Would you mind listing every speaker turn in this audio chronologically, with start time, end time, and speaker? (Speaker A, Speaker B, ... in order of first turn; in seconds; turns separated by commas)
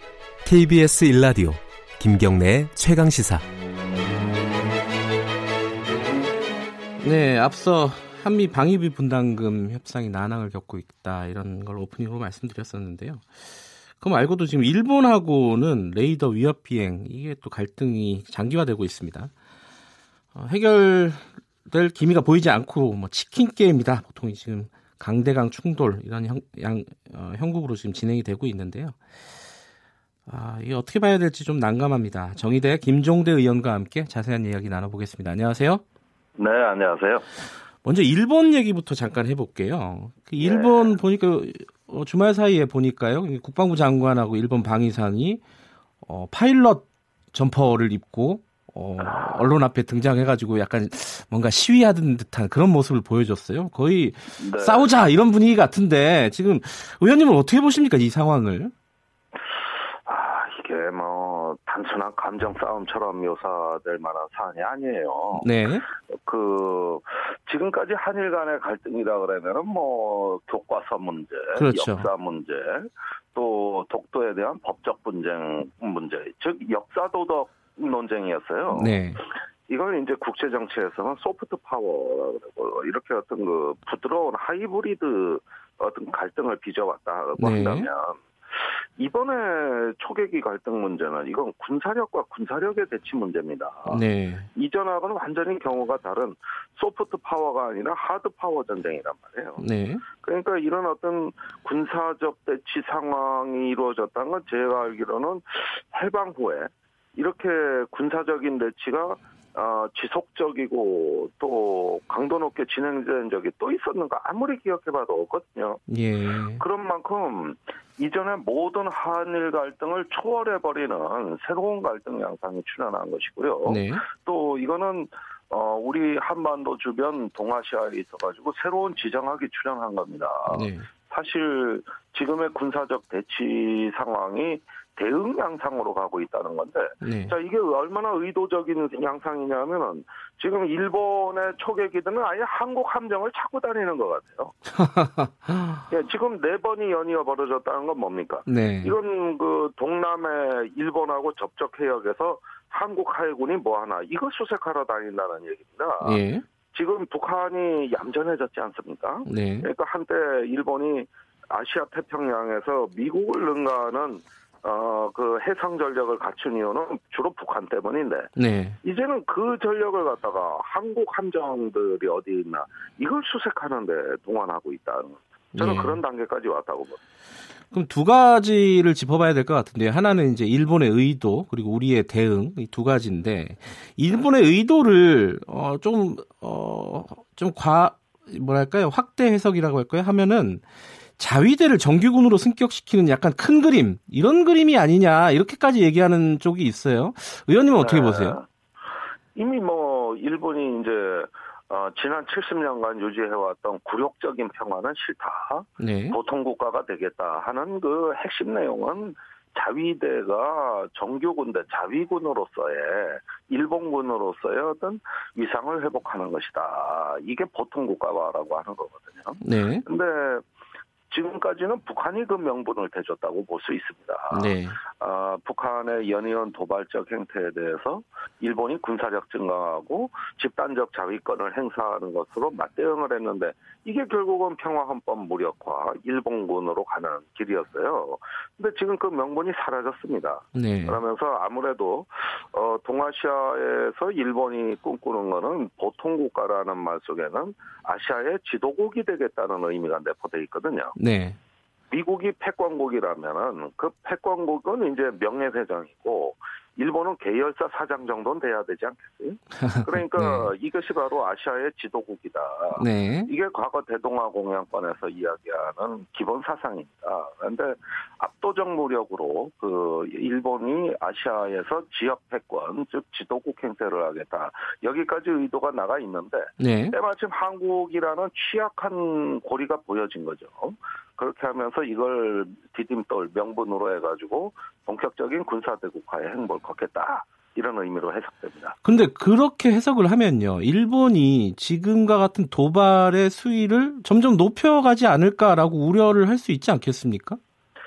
Speaker A: 0.4-3.4, Speaker B: 7.0-13.3, Speaker B: 14.0-19.3, Speaker B: 20.3-28.9, Speaker B: 30.3-35.8, Speaker C: 36.4-37.2, Speaker B: 37.8-45.4, Speaker C: 40.4-41.0, Speaker B: 46.0-58.7, Speaker C: 49.0-49.5, Speaker C: 54.4-54.9, Speaker C: 60.0-65.5, Speaker B: 65.3-65.8, Speaker C: 66.1-79.0, Speaker B: 71.5-72.1, Speaker B: 78.7-79.2, Speaker C: 79.7-94.0, Speaker B: 87.4-87.9, Speaker B: 93.8-94.5, Speaker C: 94.5-99.6, Speaker B: 99.6-100.0, Speaker C: 100.2-115.8, Speaker B: 115.9-116.6, Speaker C: 116.6-144.6, Speaker B: 123.6-124.0, Speaker B: 130.5-130.9, Speaker B: 137.0-137.3, Speaker B: 144.8-145.8, Speaker C: 145.9-156.2, Speaker B: 148.4-149.0, Speaker B: 156.0-156.4, Speaker C: 156.7-177.0, Speaker B: 159.2-159.7, Speaker B: 168.4-168.8, Speaker B: 175.6-176.0, Speaker B: 177.7-190.6, Speaker B: 191.2-198.4, Speaker C: 197.8-198.5, Speaker C: 199.3-220.4, Speaker B: 205.8-206.2, Speaker B: 219.4-219.8, Speaker C: 221.1-250.9, Speaker B: 224.3-224.8, Speaker B: 240.5-241.0, Speaker B: 250.9-251.4, Speaker C: 251.9-288.8, Speaker B: 259.6-260.5, Speaker B: 262.8-263.3, Speaker B: 276.6-276.9, Speaker B: 288.8-297.4